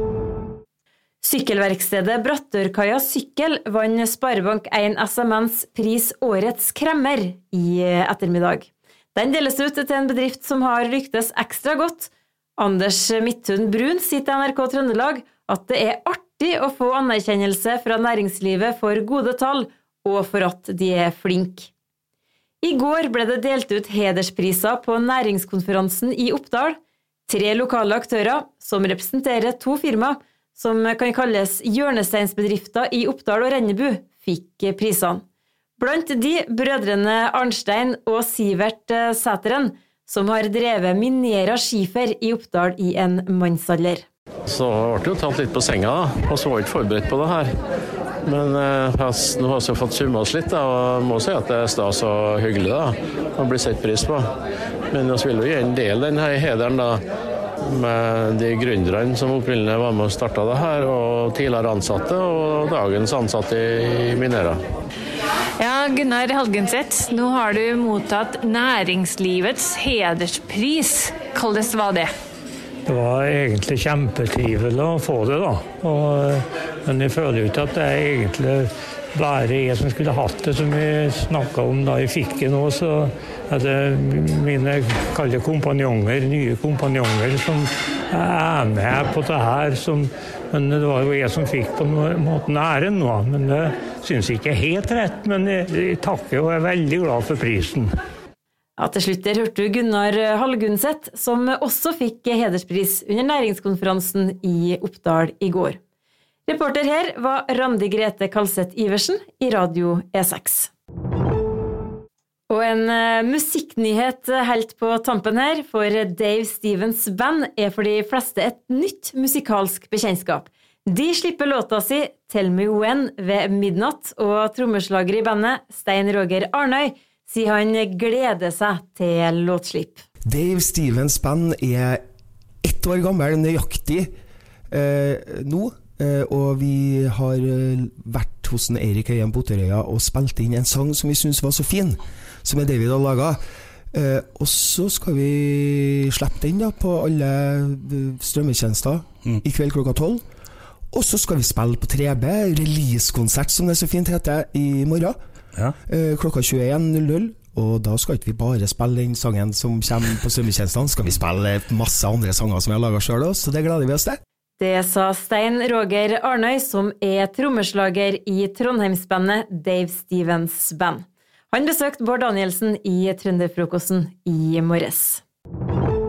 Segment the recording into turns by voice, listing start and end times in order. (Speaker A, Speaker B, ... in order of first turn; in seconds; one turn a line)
Speaker A: 1.2-21.7
Speaker A: 22.6-35.2
Speaker A: 35.8-44.0
Speaker B: 44.5-47.5
Speaker B: 48.2-54.3
Speaker B: 54.9-57.0
Speaker B: 57.7-64.6
Speaker C: 65.6-72.1
Speaker D: 72.8-97.9
Speaker A: 98.8-105.8
Speaker A: 106.5-110.7
Speaker A: 112.5-130.0
Speaker E: 130.2-132.0
Speaker E: 132.6-134.1
Speaker E: 134.7-143.4
Speaker E: 143.9-150.2
Speaker E: 150.9-155.2
Speaker E: 155.8-164.2
Speaker A: 164.6-175.2